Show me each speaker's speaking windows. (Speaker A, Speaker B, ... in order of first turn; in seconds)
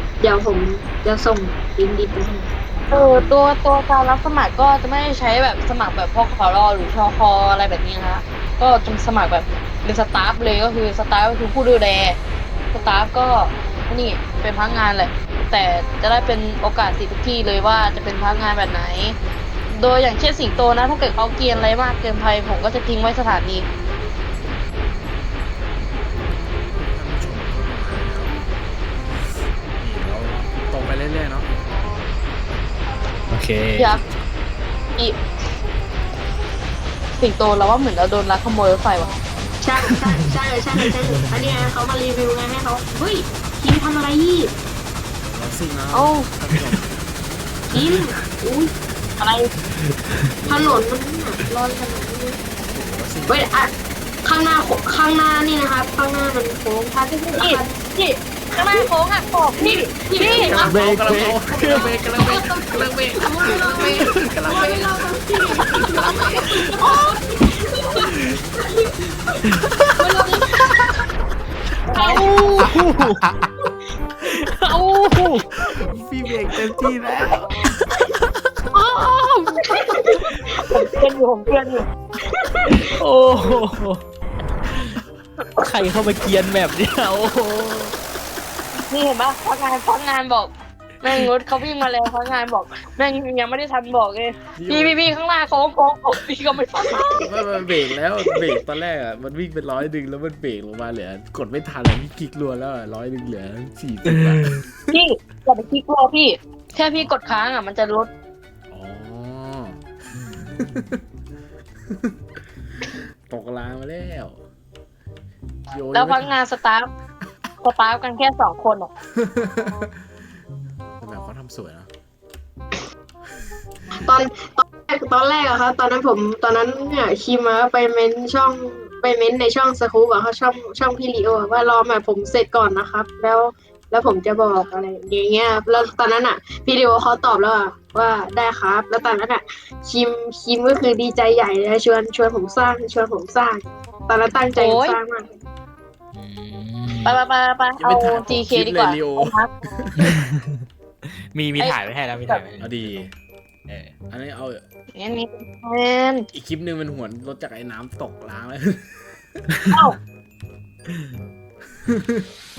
Speaker A: 0.2-3.3, 39.6-44.5, 47.7-48.7, 50.5-52.4, 53.3-53.7, 54.2-57.7, 58.5-58.9, 59.5-60.8, 61.5-69.0, 70.0-70.5, 71.9-72.4, 79.7-81.0, 82.3-82.8, 124.0-145.3
Speaker B: 2.9-12.2, 12.7-19.1, 19.7-23.7, 33.8-34.0, 37.2-39.2, 45.9-46.3, 49.2-49.5, 57.0-60.7, 66.7-67.2, 71.9-72.4, 80.7-81.8, 88.7-97.5, 104.9-108.1, 115.9-116.9, 117.6-118.9, 144.5-145.0, 147.0-149.5, 151.6-152.4, 154.9-156.3
Speaker C: 26.3-28.4, 29.8-31.7, 34.0-34.3, 45.2-46.9, 50.4-50.9, 52.7-53.5, 60.2-66.7, 72.6-73.5, 75.5-77.7, 94.5-95.0, 97.0-104.8, 106.8-107.1, 108.7-109.8, 110.5-111.0, 113.3-114.4, 115.7-116.4, 119.2-119.9, 121.0-121.9, 147.8-150.2, 152.6-153.1, 154.1-154.6, 156.3-159.5, 161.8-162.2
Speaker D: 33.3-33.9, 40.8-41.4, 49.8-50.3, 60.6-61.9, 63.6-64.2, 72.0-73.2, 74.4-75.4, 76.8-77.3, 78.8-79.4, 80.2-80.5, 82.6-84.0, 84.7-85.0, 85.5-88.0, 104.1-104.5, 110.1-110.8, 146.1-147.2, 150.0-150.4, 151.3-152.9, 159.6-159.8